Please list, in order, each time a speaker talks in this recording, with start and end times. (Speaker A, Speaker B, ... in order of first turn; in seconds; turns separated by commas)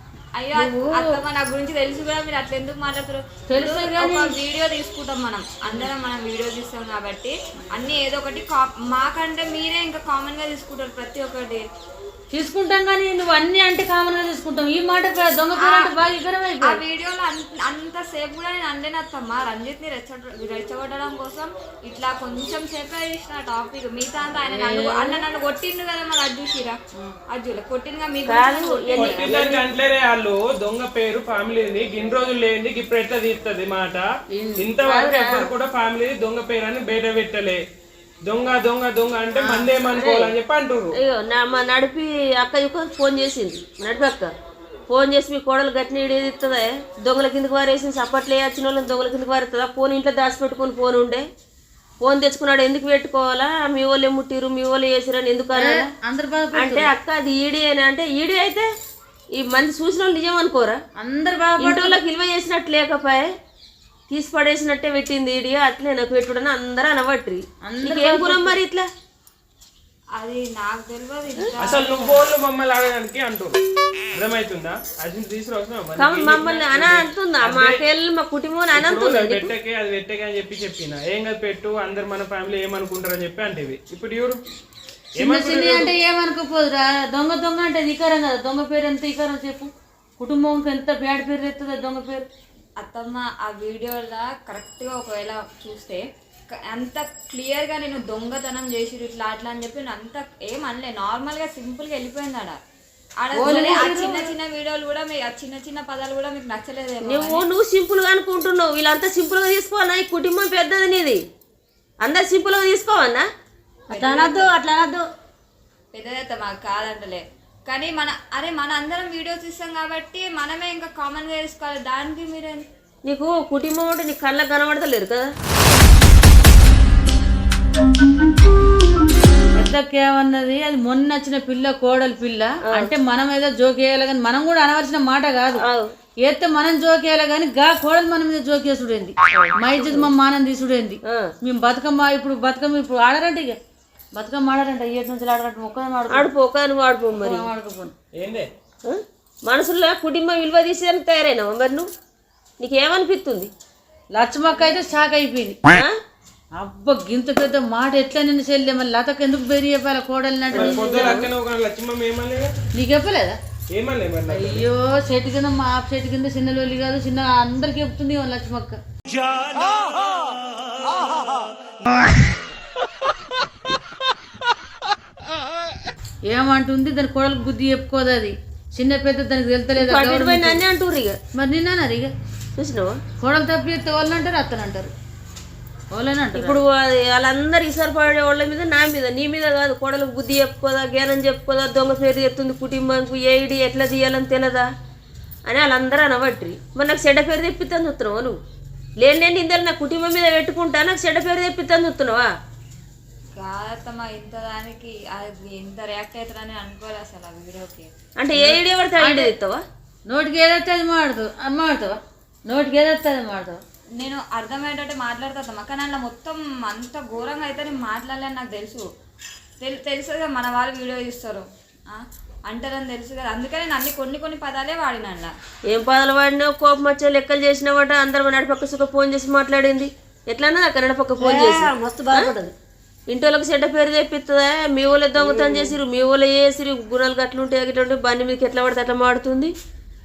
Speaker A: 0.3-11.6, Speaker B: 0.5-1.2, Speaker B: 3.5-4.3, Speaker B: 12.3-16.8, Speaker A: 15.6-15.9, Speaker A: 16.6-26.8, Speaker B: 24.5-25.2, Speaker A: 27.3-29.7, Speaker C: 28.2-29.2, Speaker D: 28.9-34.0, Speaker B: 34.3-34.7, Speaker D: 34.6-37.6, Speaker C: 34.8-35.5, Speaker D: 38.2-41.0, Speaker B: 39.3-39.7, Speaker C: 39.8-40.3, Speaker C: 41.0-44.3, Speaker C: 44.9-51.2, Speaker C: 52.0-55.9, Speaker B: 55.5-56.9, Speaker C: 56.5-58.7, Speaker C: 59.4-60.8, Speaker B: 61.0-62.0, Speaker C: 61.6-63.2, Speaker C: 64.1-68.9, Speaker B: 67.7-68.6, Speaker A: 70.2-72.2, Speaker D: 71.6-73.6, Speaker D: 74.1-77.8, Speaker C: 76.0-79.5, Speaker D: 78.7-84.4, Speaker D: 85.2-85.9, Speaker B: 85.2-92.2, Speaker A: 92.8-96.0, Speaker A: 96.7-102.6, Speaker A: 103.2-107.4, Speaker B: 103.3-104.3, Speaker C: 107.0-111.2, Speaker C: 112.0-113.2, Speaker E: 113.9-115.0, Speaker A: 113.9-114.5, Speaker A: 115.9-122.6, Speaker C: 123.0-125.3, Speaker B: 129.6-135.6, Speaker C: 135.6-135.9, Speaker B: 136.2-143.6, Speaker C: 139.3-140.1, Speaker C: 141.0-141.3, Speaker B: 144.2-146.3, Speaker C: 146.1-147.5, Speaker B: 147.1-147.9, Speaker D: 148.2-148.5, Speaker C: 148.8-151.9, Speaker C: 152.6-153.5, Speaker B: 154.1-155.6, Speaker B: 156.6-161.2, Speaker C: 160.5-161.3, Speaker D: 160.5-162.5, Speaker B: 162.7-163.4, Speaker D: 163.7-164.6, Speaker B: 164.3-168.8, Speaker B: 176.3-180.6, Speaker C: 179.8-181.2, Speaker B: 181.3-182.1, Speaker C: 182.6-183.0, Speaker B: 183.2-184.9, Speaker B: 185.9-186.6, Speaker C: 186.3-194.7, Speaker C: 195.5-198.3, Speaker C: 199.0-202.3, Speaker A: 203.4-207.9, Speaker C: 208.2-209.6, Speaker B: 208.3-209.3, Speaker B: 210.1-213.6, Speaker A: 214.0-218.8, Speaker A: 219.6-225.3, Speaker C: 225.7-232.3, Speaker E: 231.2-232.5, Speaker C: 233.1-239.5, Speaker E: 235.2-235.8